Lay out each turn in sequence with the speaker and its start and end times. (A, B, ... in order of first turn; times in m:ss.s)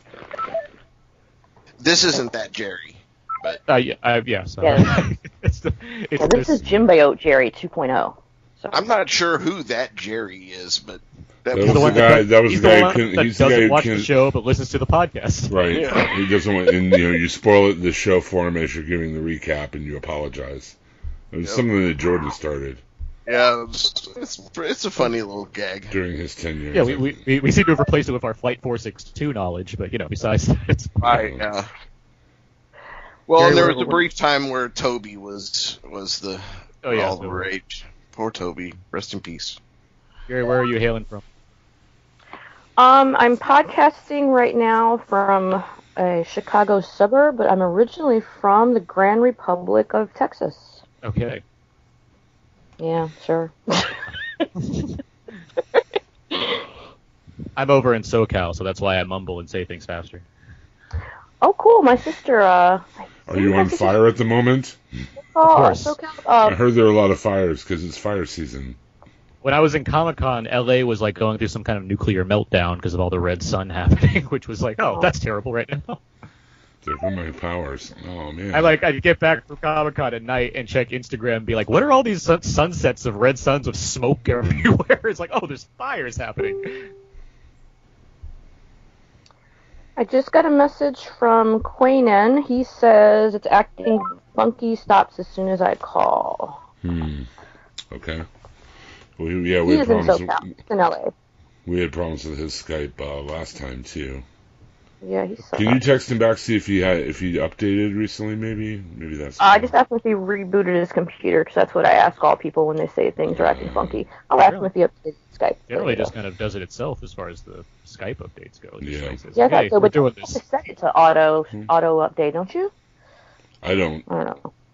0:01.8-0:03.6 A
0:03.7-0:06.6 B
0:04.6-0:04.9 C
0:06.2-0:08.8 C
0:08.7-0:12.2 A
0:11.5-0:14.1 D
0:11.6-0:15.6 B
0:15.5-0:20.8 D
0:15.7-0:16.1 A
0:21.3-0:22.8 D
0:23.3-0:26.0 A
0:25.9-0:27.2 D
0:26.7-0:31.2 B
0:31.0-0:31.7 A
0:31.1-0:31.4 D
0:33.3-0:39.6 A
0:33.4-0:34.0 B
0:36.8-0:37.5 B
0:40.3-0:41.2 B
0:42.8-0:50.8 C
0:51.0-0:51.4 B
0:52.8-0:54.4 C
0:57.6-1:00.2 B
1:01.4-1:04.0 C
1:03.3-1:04.8 D
1:05.3-1:06.6 C
1:05.4-1:06.0 B
1:06.4-1:08.8 D
1:09.4-1:16.0 B
1:16.8-1:18.8 D
1:18.5-1:26.9 B
1:30.0-1:36.6 C
1:36.8-1:37.3 D
1:37.9-1:38.3 D
1:39.2-1:40.6 D
1:39.6-1:41.1 C
1:41.7-1:44.2 D
1:45.0-1:45.8 C
1:45.6-1:49.7 D
1:49.4-1:56.1 C
1:53.3-1:54.0 D
1:54.4-1:54.7 B
1:55.7-2:00.4 B
1:58.8-1:59.2 D
1:59.4-2:02.7 C
2:03.6-2:04.1 D
2:04.1-2:04.5 C